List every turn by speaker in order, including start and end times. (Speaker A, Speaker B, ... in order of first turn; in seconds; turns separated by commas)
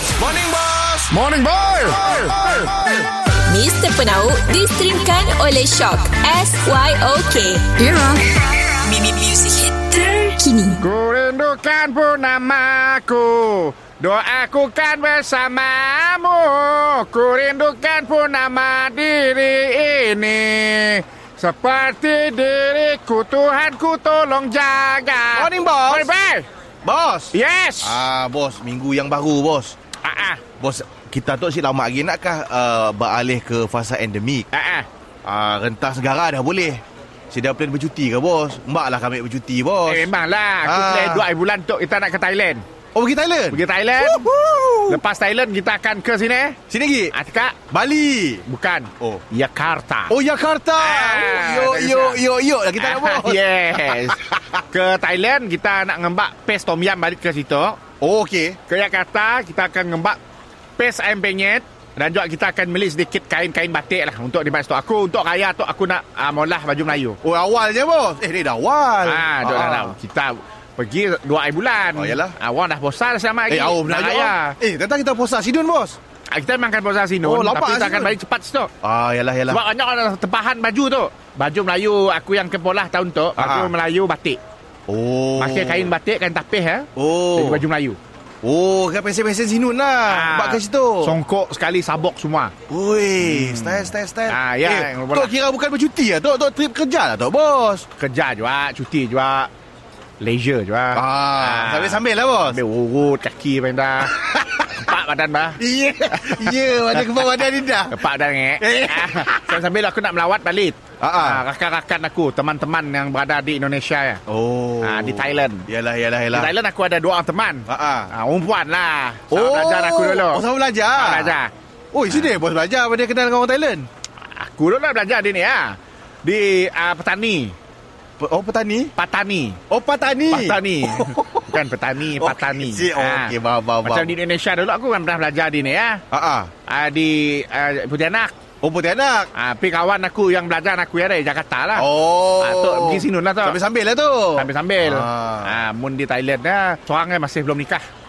Speaker A: 0.2-1.1, Speaker B: 1.1-2.8, Speaker C: 3.5-10.8, Speaker B: 10.8-26.5, Speaker A: 25.3-26.1, Speaker A: 26.8-29.8, Speaker B: 27.3-28.0, Speaker B: 30.0-30.4, Speaker A: 30.6-34.5, Speaker B: 34.5-34.9, Speaker A: 35.2-40.1, Speaker B: 39.9-42.6, Speaker A: 40.6-41.3, Speaker A: 42.9-45.0, Speaker B: 43.5-44.3, Speaker B: 44.9-46.6, Speaker A: 46.7-47.1, Speaker B: 47.1-47.6, Speaker A: 47.7-48.4, Speaker B: 48.4-50.2, Speaker A: 50.1-54.6, Speaker B: 50.8-52.2, Speaker B: 52.8-57.8, Speaker A: 58.0-58.6, Speaker B: 58.7-60.2, Speaker B: 60.8-67.2, Speaker A: 67.2-69.9, Speaker B: 69.0-74.6, Speaker A: 71.9-72.3, Speaker A: 73.5-76.0, Speaker B: 76.3-78.7, Speaker A: 77.2-78.2, Speaker A: 78.8-79.6, Speaker B: 79.5-84.4, Speaker A: 83.3-83.7, Speaker A: 84.9-85.9, Speaker B: 85.4-88.0, Speaker A: 87.0-87.6, Speaker A: 88.4-91.2, Speaker B: 90.0-92.5, Speaker A: 92.7-97.8, Speaker B: 93.2-95.3, Speaker B: 98.0-99.5, Speaker B: 100.2-104.2, Speaker A: 100.9-102.6, Speaker A: 104.0-104.7, Speaker B: 104.7-114.2, Speaker A: 105.6-108.0, Speaker A: 108.6-109.6, Speaker A: 111.0-111.4, Speaker A: 114.3-116.5, Speaker B: 114.8-115.7, Speaker B: 116.3-121.5, Speaker A: 117.7-118.1, Speaker A: 119.3-121.4, Speaker A: 121.9-123.9, Speaker B: 122.1-122.3, Speaker B: 124.3-127.5, Speaker A: 128.2-128.9, Speaker B: 128.9-129.6, Speaker A: 129.7-131.6, Speaker B: 130.3-136.0, Speaker A: 132.1-134.1, Speaker A: 136.1-136.5, Speaker B: 136.7-138.3, Speaker A: 138.6-139.3, Speaker B: 139.3-141.9, Speaker A: 141.7-145.6, Speaker B: 142.4-143.6, Speaker B: 144.3-147.8